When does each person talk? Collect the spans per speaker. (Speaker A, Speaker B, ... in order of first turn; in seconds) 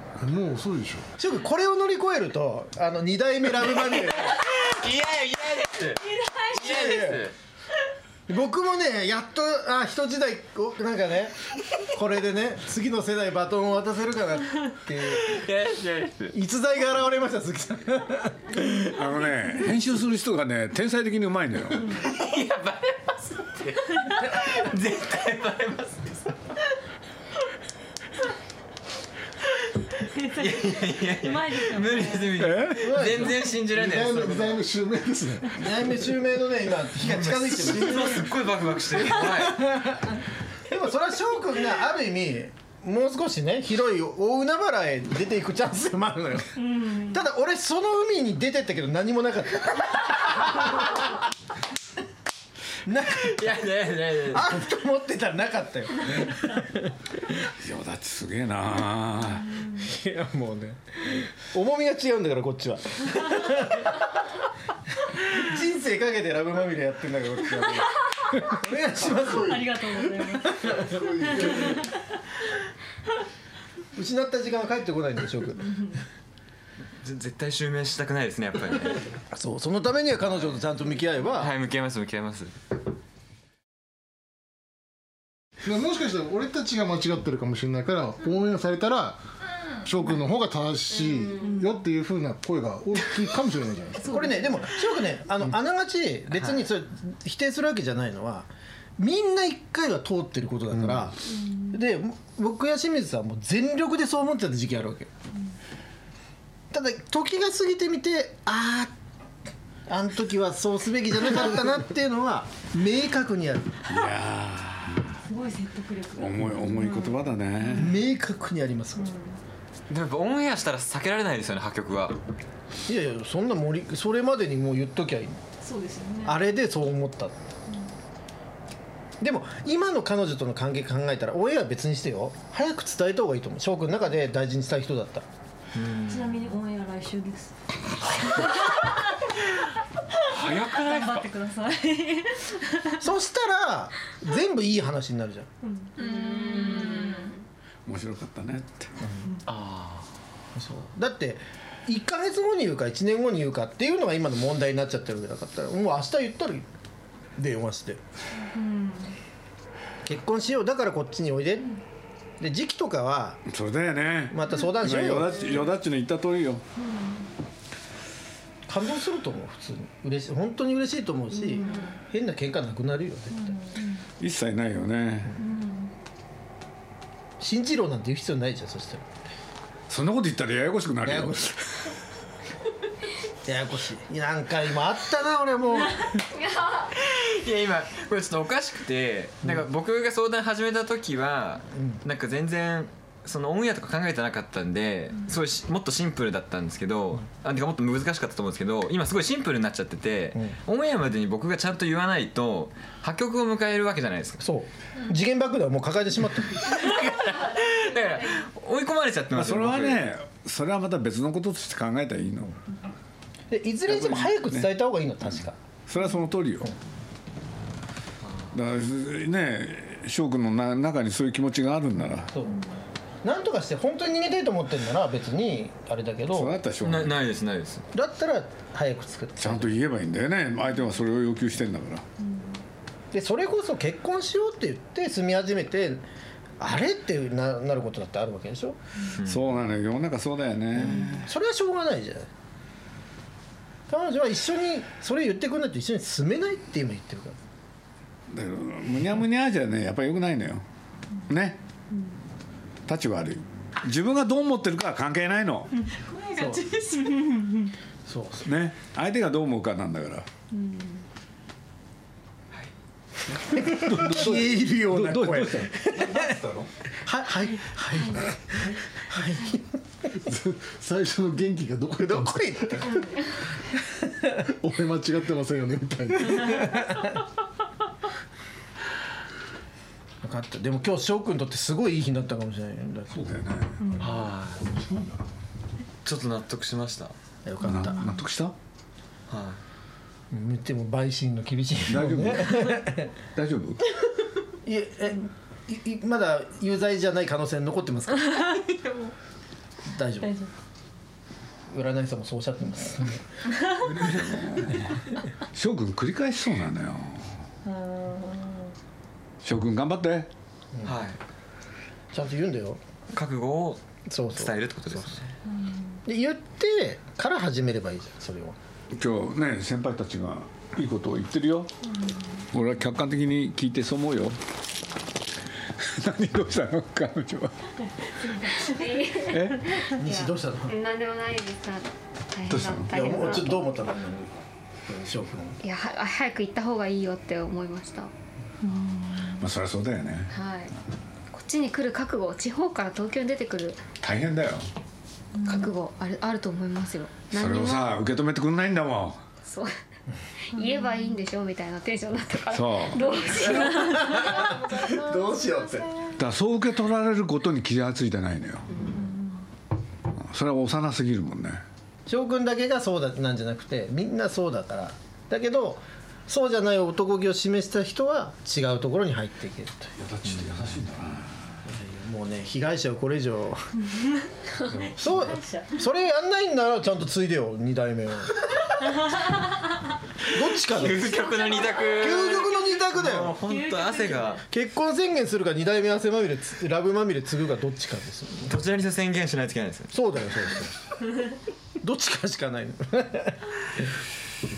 Speaker A: 0.2-1.1, 33.6-35.6, 69.0-69.7, 70.6-71.8, 85.6-89.2, 89.8-94.2, 270.2-272.5, 274.6-276.6
Speaker B: 1.2-4.4, 6.5-7.3, 8.3-15.4, 16.3-18.9, 32.8-33.5, 35.5-51.2, 52.9-53.6, 54.3-57.3, 59.7-64.2, 65.0-71.8, 74.0-75.9, 79.3-81.5, 94.0-105.1, 106.7-108.9, 109.9-113.8, 117.7-119.1, 122.9-125.4, 126.2-127.4, 129.2-135.3, 143.0-145.5, 149.0-149.4, 150.6-156.7, 157.4-158.0, 160.1-161.8, 162.4-163.4, 164.3-165.7, 168.7-173.6, 177.4-179.1, 181.1-181.5, 183.4-186.2, 204.4-206.8, 213.5-215.6, 222.3-222.6, 223.2-226.6, 227.9-229.8, 233.1-236.1, 236.6-238.8, 240.7-242.3, 243.9-247.4, 256.4-256.7, 258.1-258.5, 263.5-266.4, 267.0-269.8, 272.0-274.4, 276.4-277.1, 280.2-283.4, 287.4-288.1, 290.3-293.1, 294.6-298.6, 299.9-300.3, 301.7-303.2, 312.1-312.8, 314.1-315.2, 316.1-318.6, 329.9-330.8, 332.9-335.6, 353.2-355.9, 362.1-369.9, 371.7-373.6, 375.0-378.4, 380.3-381.3, 382.0-383.4, 384.5-388.5, 389.9-390.8, 391.8-393.9
Speaker C: 4.3-7.3, 15.1-16.4, 21.9-26.3, 30.3-34.6, 37.0-39.8, 53.2-54.6, 77.0-79.1, 81.3-82.5, 119.9-122.2, 135.7-136.4, 149.5-150.1, 186.9-204.4, 206.6-210.1, 218.2-218.5, 226.8-227.9, 239.1-239.6, 284.0-284.7, 286.0-287.1, 289.3-289.6, 310.8-311.2, 313.1-315.3, 380.3-384.4, 388.5-390.0
Speaker D: 18.9-21.9, 32.4-33.0, 57.6-59.5, 113.9-115.2, 116.2-118.0, 140.3-141.3, 147.9-148.9, 163.5-166.6, 174.2-175.4, 179.9-181.6, 209.3-212.5, 213.9-214.7, 215.9-216.7, 218.5-222.3, 226.3-227.2, 229.4-232.1, 239.2-241.3, 248.3-250.6, 251.3-251.6, 252.9-255.7, 258.4-260.3, 263.5-266.7, 283.1-284.0, 287.6-288.5, 291.9-293.8, 303.8-305.0, 305.5-307.3, 309.4-310.3, 318.9-321.7, 322.5-324.4, 325.8-327.5, 329.3-329.7, 332.5-332.9, 339.4-340.3, 344.0-344.6, 347.3-349.2, 352.5-353.1, 356.2-358.7, 360.2-361.6, 370.0-371.5, 374.7-375.2
Speaker E: 21.8-22.0, 30.1-32.5, 46.6-47.2, 69.3-71.7, 91.4-91.8, 94.0-94.7, 101.5-101.8, 115.3-117.9, 119.0-119.4, 125.6-126.4, 136.1-137.6, 138.1-139.1, 140.2-143.0, 145.6-147.4, 158.5-159.1, 166.8-167.3, 171.3-172.0, 173.3-174.0, 175.4-175.9, 232.2-232.6, 255.9-257.7, 260.5-261.0, 283.8-284.1, 300.2-300.5, 307.6-308.7, 315.6-316.0, 328.2-329.0, 338.6-339.4, 345.4-345.7, 350.6-351.0, 358.9-359.4, 374.9-375.8, 381.3-382.2, 383.4-384.4
Speaker F: 146.0-147.2, 328.5-333.8, 335.6-338.1, 340.3-340.8, 341.3-343.8, 345.4-348.0, 349.4-349.8, 350.5-355.1